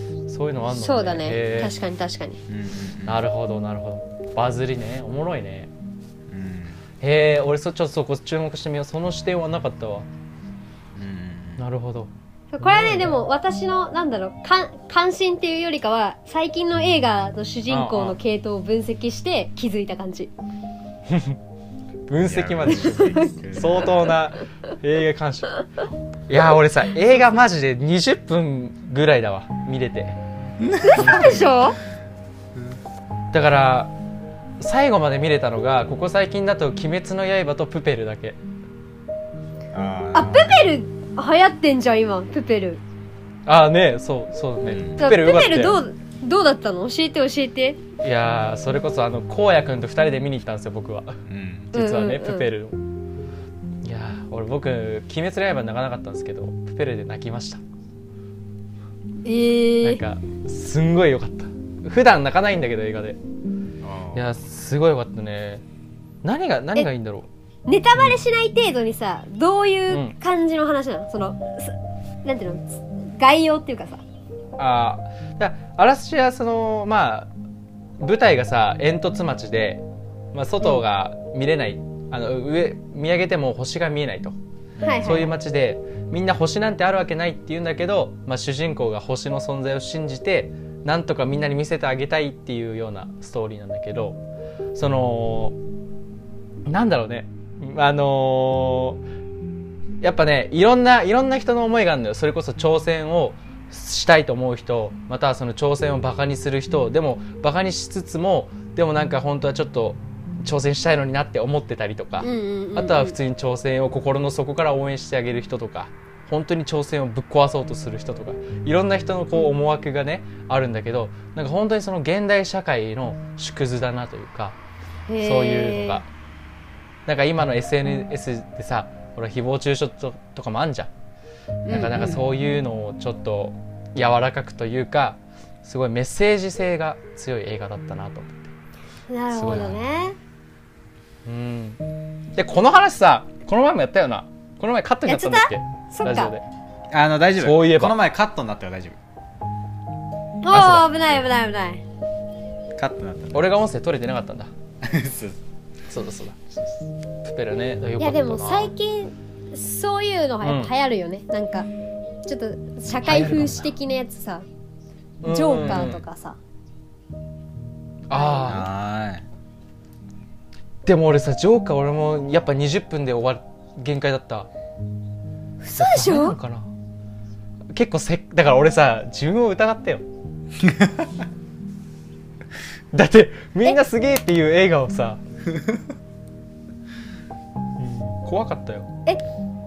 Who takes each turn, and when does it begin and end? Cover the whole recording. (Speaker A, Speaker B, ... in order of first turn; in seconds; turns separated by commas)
Speaker A: 0.3-1.7, Speaker B: 0.7-2.4, Speaker C: 2.5-3.2, Speaker A: 3.0-5.7, Speaker C: 6.3-6.8, Speaker A: 7.0-10.1, Speaker C: 10.9-11.6, Speaker A: 11.6-13.2, Speaker B: 12.5-20.3, Speaker A: 17.7-18.2, Speaker A: 21.1-21.4, Speaker A: 22.1-25.7, Speaker C: 22.2-24.1, Speaker B: 22.7-23.6, Speaker A: 26.3-30.2, Speaker C: 30.6-31.4, Speaker B: 30.8-31.8, Speaker A: 30.9-31.4, Speaker A: 33.3-33.9, Speaker A: 34.6-38.4, Speaker C: 39.7-40.6, Speaker B: 40.1-42.8, Speaker A: 43.5-45.8, Speaker C: 44.6-45.0, Speaker B: 45.0-47.8, Speaker A: 48.0-51.2, Speaker C: 51.3-51.7, Speaker A: 51.7-52.8, Speaker B: 51.7-52.5, Speaker A: 53.8-57.6, Speaker B: 59.2-60.0, Speaker A: 59.8-63.2, Speaker C: 63.8-64.3, Speaker A: 64.1-65.6, Speaker A: 66.2-67.3, Speaker B: 67.7-74.0, Speaker A: 69.9-70.1, Speaker A: 74.6-77.3, Speaker A: 78.0-84.4, Speaker C: 84.8-85.1, Speaker B: 84.8-85.3, Speaker A: 85.0-94.2, Speaker A: 94.7-95.5, Speaker A: 96.7-99.0, Speaker A: 100.0-124.5, Speaker B: 112.2-113.2, Speaker B: 125.1-126.0, Speaker A: 125.2-126.1, Speaker A: 127.0-130.9, Speaker B: 131.6-132.2, Speaker A: 131.7-138.5, Speaker B: 139.1-140.2, Speaker A: 139.3-139.8, Speaker A: 141.2-141.8, Speaker A: 142.3-146.4, Speaker B: 145.1-146.3, Speaker C: 146.9-149.0, Speaker A: 147.4-147.9, Speaker B: 150.4-151.8, Speaker A: 150.5-151.2, Speaker C: 152.8-153.6, Speaker A: 153.3-154.5, Speaker C: 154.8-155.4, Speaker A: 155.9-158.7, Speaker B: 158.0-161.7, Speaker A: 160.4-160.7, Speaker B: 162.2-164.4, Speaker A: 162.9-163.7, Speaker A: 165.2-166.0, Speaker B: 165.2-166.4, Speaker C: 165.6-166.0, Speaker A: 168.1-168.7, Speaker B: 168.1-168.6, Speaker C: 168.4-169.2, Speaker A: 170.8-174.5, Speaker B: 175.6-176.4, Speaker A: 175.7-176.7, Speaker A: 177.7-180.0, Speaker C: 180.6-181.2, Speaker A: 182.9-185.2, Speaker C: 185.5-185.8, Speaker A: 187.8-188.9